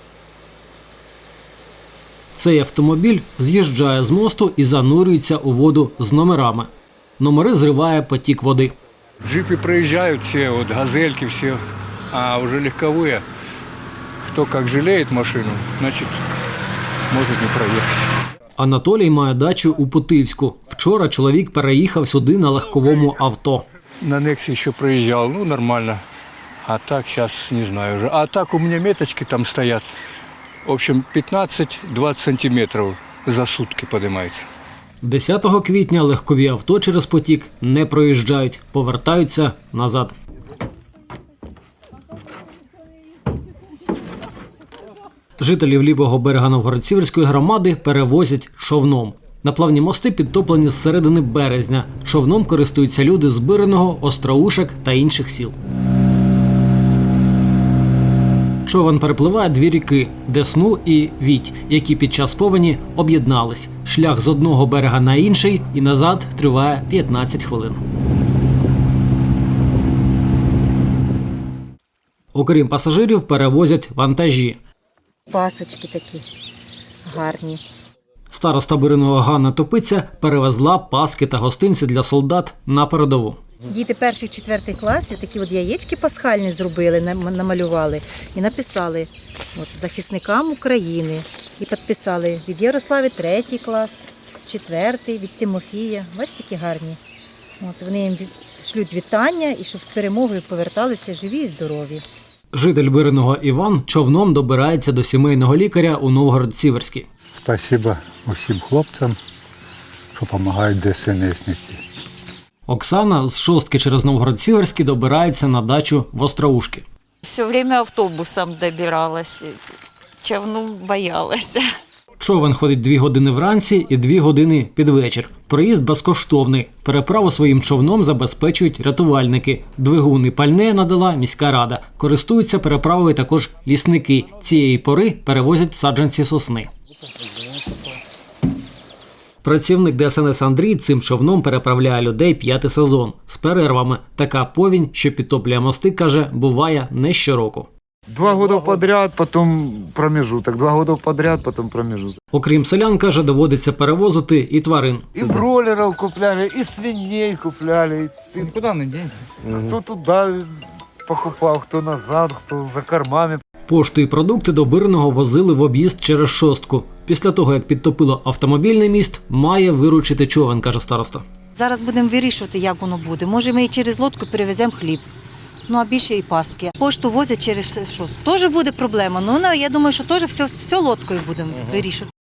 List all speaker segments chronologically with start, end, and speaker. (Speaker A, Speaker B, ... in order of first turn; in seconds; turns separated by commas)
Speaker A: 2.3-8.7, Speaker B: 9.2-13.2, Speaker B: 14.2-16.2, Speaker B: 17.1-18.1, Speaker A: 18.6-23.7, Speaker B: 24.0-26.0, Speaker B: 26.6-29.9, Speaker B: 30.6-34.5, Speaker A: 35.0-40.1, Speaker A: 45.4-55.5, Speaker A: 58.6-67.8, Speaker A: 72.3-74.6, Speaker C: 75.3-76.2, Speaker C: 77.0-77.6, Speaker A: 78.3-83.4, Speaker C: 83.7-97.0, Speaker C: 97.6-102.0, Speaker A: 102.5-107.1, Speaker D: 107.3-109.2, Speaker D: 110.1-111.8, Speaker A: 112.7-116.8, Speaker E: 117.2-119.6, Speaker E: 120.2-121.7, Speaker A: 122.2-136.7, Speaker A: 139.4-147.7, Speaker F: 148.1-152.1, Speaker A: 152.3-155.1, Speaker F: 155.2-158.8, Speaker F: 159.5-163.4, Speaker A: 163.7-171.2, Speaker C: 171.6-175.0, Speaker C: 175.7-182.1